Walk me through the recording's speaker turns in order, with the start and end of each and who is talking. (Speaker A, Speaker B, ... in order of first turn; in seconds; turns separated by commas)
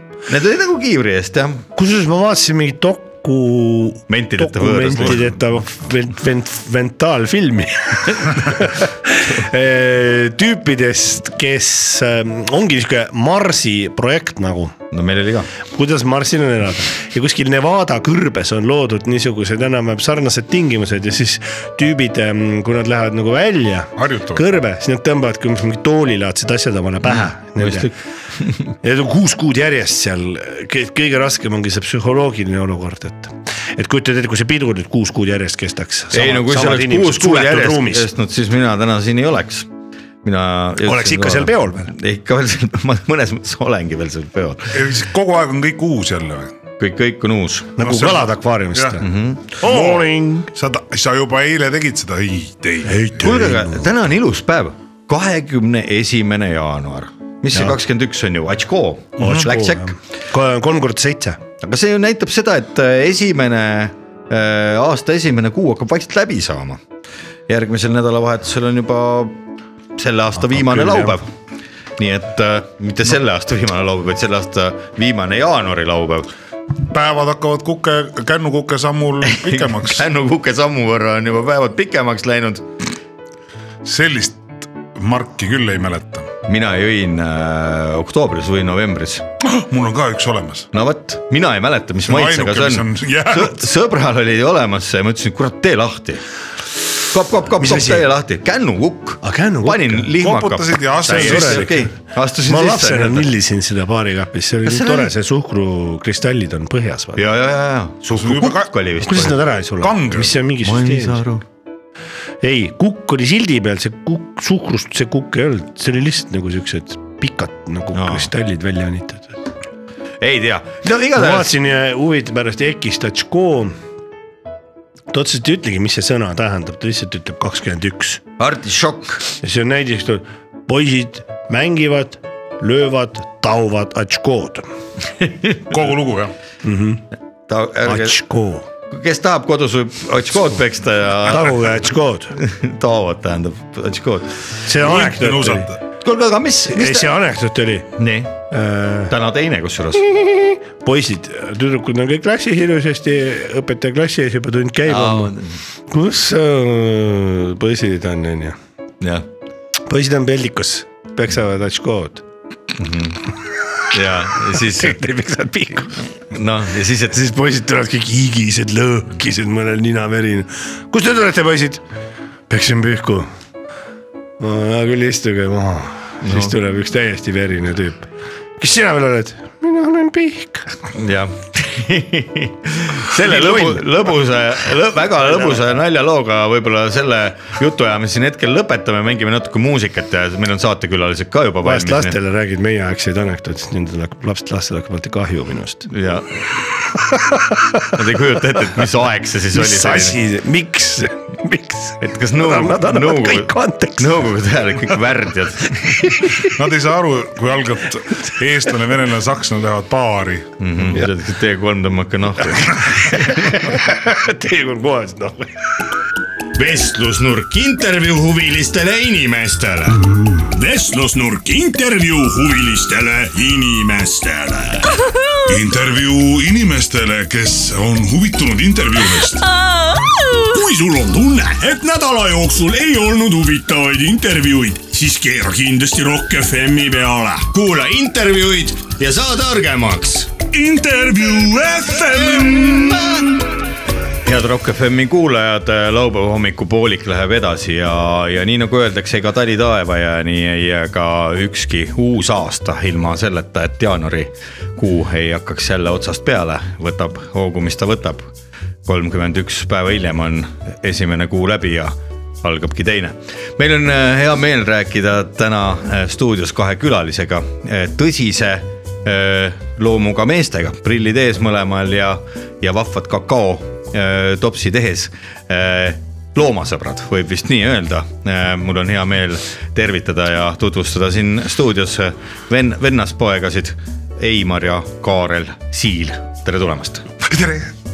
Speaker A: 0.3-1.6, Speaker B: 1.7-14.7, Speaker A: 4.1-5.3, Speaker A: 14.9-15.5, Speaker B: 15.7-27.9, Speaker C: 24.0-24.4, Speaker A: 27.1-27.9, Speaker B: 28.8-38.1, Speaker A: 36.1-39.7, Speaker A: 40.2-44.8, Speaker B: 40.8-41.9, Speaker C: 44.7-46.5, Speaker A: 46.8-47.7, Speaker B: 47.8-49.1, Speaker C: 47.8-49.0, Speaker A: 49.0-49.4, Speaker B: 49.6-50.5, Speaker C: 49.6-53.3, Speaker B: 52.9-53.9, Speaker A: 53.2-60.0, Speaker B: 57.5-57.8, Speaker B: 59.2-61.4, Speaker A: 61.6-66.8, Speaker A: 67.5-69.4, Speaker A: 70.0-71.3, Speaker B: 70.5-71.2, Speaker A: 72.0-76.3, Speaker C: 76.9-80.0, Speaker A: 79.2-82.6, Speaker C: 83.8-86.3, Speaker A: 86.5-89.3, Speaker C: 89.4-90.7, Speaker A: 90.7-96.2, Speaker C: 92.0-93.6, Speaker A: 97.1-103.3, Speaker B: 97.6-98.1, Speaker B: 99.2-100.1, Speaker C: 100.2-101.7, Speaker B: 101.0-101.9, Speaker B: 102.5-107.2, Speaker A: 104.6-105.1, Speaker A: 107.1-109.4, Speaker C: 108.1-108.7, Speaker B: 109.0-111.2, Speaker C: 109.8-110.3, Speaker A: 110.6-111.4, Speaker B: 112.4-119.3, Speaker A: 117.9-118.3, Speaker A: 120.2-121.5, Speaker B: 121.1-123.7, Speaker B: 125.1-128.2, Speaker A: 128.4-129.2, Speaker B: 129.4-134.7, Speaker A: 135.2-135.6, Speaker C: 135.6-136.3, Speaker B: 136.6-137.0, Speaker A: 137.5-138.2, Speaker B: 137.8-138.7, Speaker A: 138.9-141.7, Speaker B: 141.2-142.3, Speaker A: 142.4-144.3, Speaker B: 144.6-145.7, Speaker C: 144.8-145.8, Speaker A: 146.0-147.1, Speaker B: 146.7-147.9, Speaker A: 148.0-148.4, Speaker B: 148.5-149.1, Speaker A: 149.1-150.0, Speaker B: 150.0-155.4, Speaker A: 154.8-155.6, Speaker B: 155.9-158.6, Speaker A: 159.0-159.3, Speaker B: 159.9-162.2, Speaker A: 162.8-163.3, Speaker A: 163.9-165.0, Speaker B: 164.6-166.0, Speaker A: 166.3-167.2, Speaker B: 167.1-171.8, Speaker B: 172.5-173.3, Speaker B: 174.4-178.1, Speaker A: 176.2-176.5, Speaker B: 178.6-180.7, Speaker A: 180.9-192.2, Speaker B: 183.1-183.9, Speaker B: 185.2-185.6, Speaker B: 191.6-195.9, Speaker A: 195.9-196.4, Speaker B: 197.1-197.9, Speaker A: 197.9-200.2, Speaker B: 199.5-204.2, Speaker A: 202.0-206.1, Speaker B: 206.0-206.5, Speaker C: 206.3-210.5, Speaker A: 210.6-213.6, Speaker B: 212.6-215.5, Speaker A: 216.5-220.0, Speaker D: 220.4-225.0, Speaker C: 225.5-229.5, Speaker D: 230.3-237.9, Speaker A: 237.5-240.3, Speaker D: 240.5-242.9, Speaker C: 242.2-243.0, Speaker A: 244.2-258.3, Speaker A: 258.8-287.1, Speaker C: 287.2-287.7